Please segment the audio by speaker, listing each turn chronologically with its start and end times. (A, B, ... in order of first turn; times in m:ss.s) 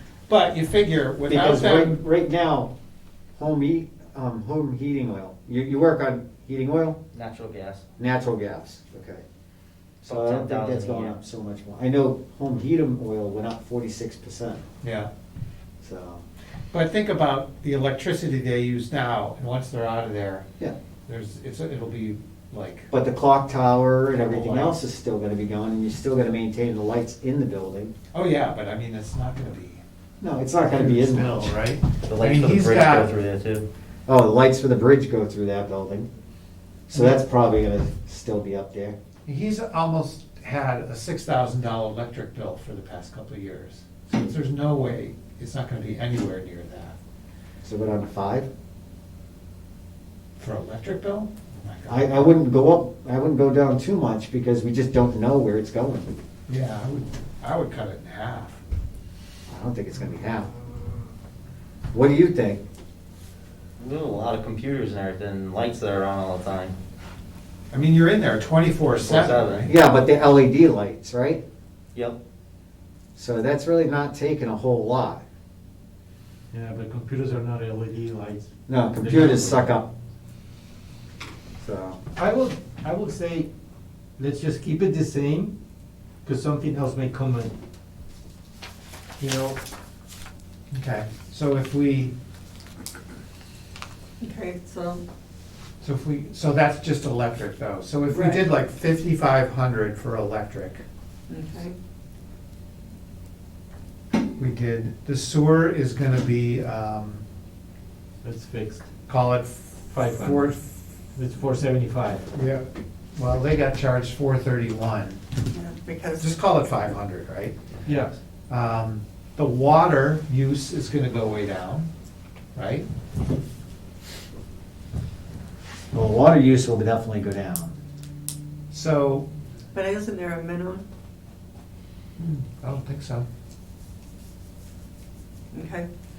0:00.3-0:02.0 A
0:01.3-0:02.7 B
0:03.4-0:07.0 B
0:07.1-0:07.8 C
0:08.0-0:09.2 B
0:10.0-0:14.6 B
0:10.0-0:11.2 C
0:14.8-0:15.1 A
0:15.8-0:16.2 B
0:16.7-0:20.5 A
0:21.1-0:22.9 A
0:22.9-0:27.9 B
0:24.2-0:24.8 A
0:28.1-0:29.8 A
0:30.2-0:31.6 B
0:30.7-0:33.1 A
0:32.1-0:33.6 C
0:34.1-0:36.1 B
0:36.9-0:39.0 B
0:37.0-0:37.2 A
0:39.3-0:47.0 A
0:47.6-0:48.5 B
0:50.4-0:52.4 A
0:51.9-0:56.1 B
0:56.5-0:58.6 A
0:59.5-1:00.5 B
1:01.9-1:02.6 B
1:03.8-1:06.8 C
1:07.7-1:09.7 A
1:09.0-1:09.7 C
1:09.7-1:11.4 B
1:13.2-1:15.2 B
1:16.5-1:19.8 D
1:18.7-1:19.9 B
1:21.6-1:22.0 B
1:22.2-1:23.5 D
1:24.2-1:25.6 D
1:26.2-1:27.6 D
1:29.2-1:29.6 D
1:30.7-1:32.1 A
1:34.2-1:35.0 E
1:35.8-1:40.8 A
1:38.1-1:38.4 E
1:41.3-1:41.8 E
1:44.4-1:47.2 A
1:48.2-1:48.9 D
1:49.1-1:50.7 A
1:49.9-1:52.3 D
1:52.3-1:55.2 A
1:55.5-1:56.3 E
1:56.2-1:57.6 A
1:57.8-1:58.2 D
1:58.5-2:01.9 A
2:02.6-2:02.9 A
2:05.9-2:07.8 B
2:08.7-2:09.3 A
2:09.7-2:10.9 E
2:12.2-2:13.3 A
2:15.5-2:15.9 E